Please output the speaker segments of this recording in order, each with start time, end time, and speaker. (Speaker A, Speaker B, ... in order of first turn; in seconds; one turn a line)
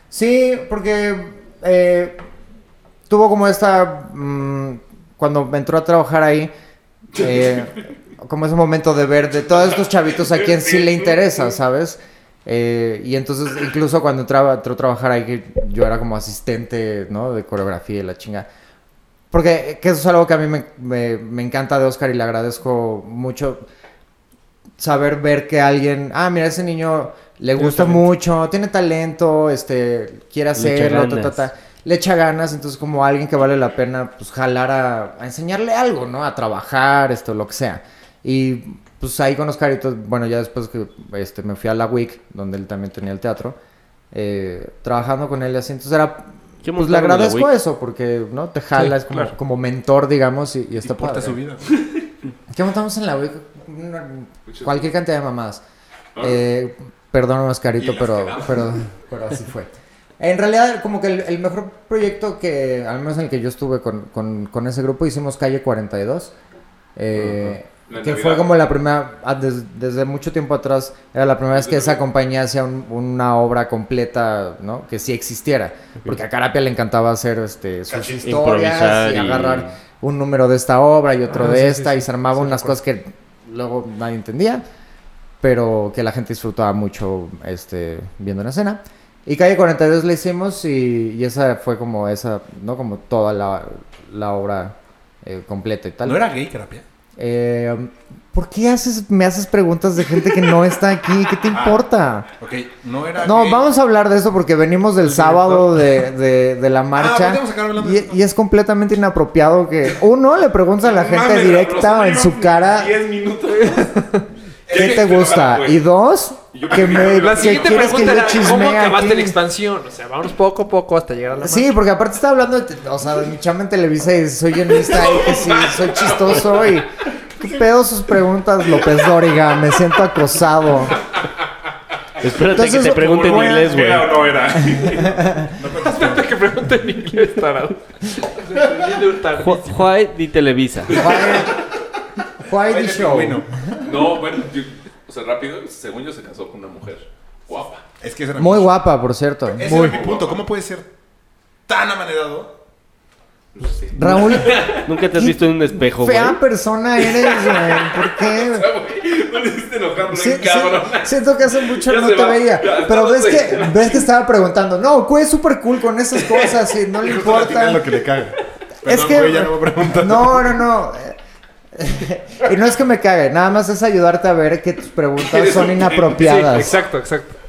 Speaker A: 0.1-2.2
Speaker A: 3.1-6.5
Speaker A: 7.1-18.5
Speaker B: 7.2-7.7
Speaker B: 10.2-11.5
Speaker A: 19.3-23.6
Speaker A: 24.8-43.6
Speaker C: 27.6-28.1
Speaker C: 30.6-31.5
Speaker A: 44.1-51.4
Speaker C: 46.6-47.6
Speaker D: 50.8-52.0
Speaker A: 52.5-55.6
Speaker B: 54.5-54.9
Speaker B: 56.2-56.4
Speaker A: 56.2-66.3
Speaker B: 57.8-58.8
Speaker A: 67.0-84.6
Speaker B: 67.9-68.6
Speaker B: 71.5-72.0
Speaker D: 77.9-78.3
Speaker C: 78.2-79.8
Speaker E: 81.3-82.7
Speaker A: 85.4-96.2
Speaker D: 96.0-96.8
Speaker A: 97.2-102.3
Speaker D: 101.5-101.8
Speaker D: 102.4-103.6
Speaker A: 103.2-113.0
Speaker E: 105.1-105.8
Speaker D: 107.0-108.2
Speaker B: 110.8-114.0
Speaker E: 113.5-114.3
Speaker B: 114.7-115.8
Speaker D: 114.7-115.5
Speaker A: 114.7-119.4
Speaker B: 116.5-118.5
Speaker E: 117.0-121.7
Speaker A: 121.4-131.0
Speaker B: 124.8-126.8
Speaker C: 132.2-134.1
Speaker B: 132.2-135.3
Speaker A: 132.5-135.5
Speaker D: 135.6-136.4
Speaker E: 135.8-139.9
Speaker C: 139.4-141.0
Speaker A: 140.9-141.6
Speaker A: 142.4-143.9
Speaker D: 142.6-143.7
Speaker B: 143.8-147.8
Speaker D: 148.0-148.7
Speaker A: 148.3-150.0
Speaker D: 149.5-150.9
Speaker B: 149.6-150.4
Speaker D: 151.7-152.6
Speaker B: 153.5-154.9
Speaker A: 153.9-158.7
Speaker C: 154.7-156.4
Speaker B: 157.0-164.1
Speaker A: 160.1-167.9
Speaker B: 166.2-166.7
Speaker D: 167.1-170.6
Speaker A: 168.8-171.2
Speaker A: 171.7-176.7
Speaker B: 175.2-176.8
Speaker E: 176.2-177.4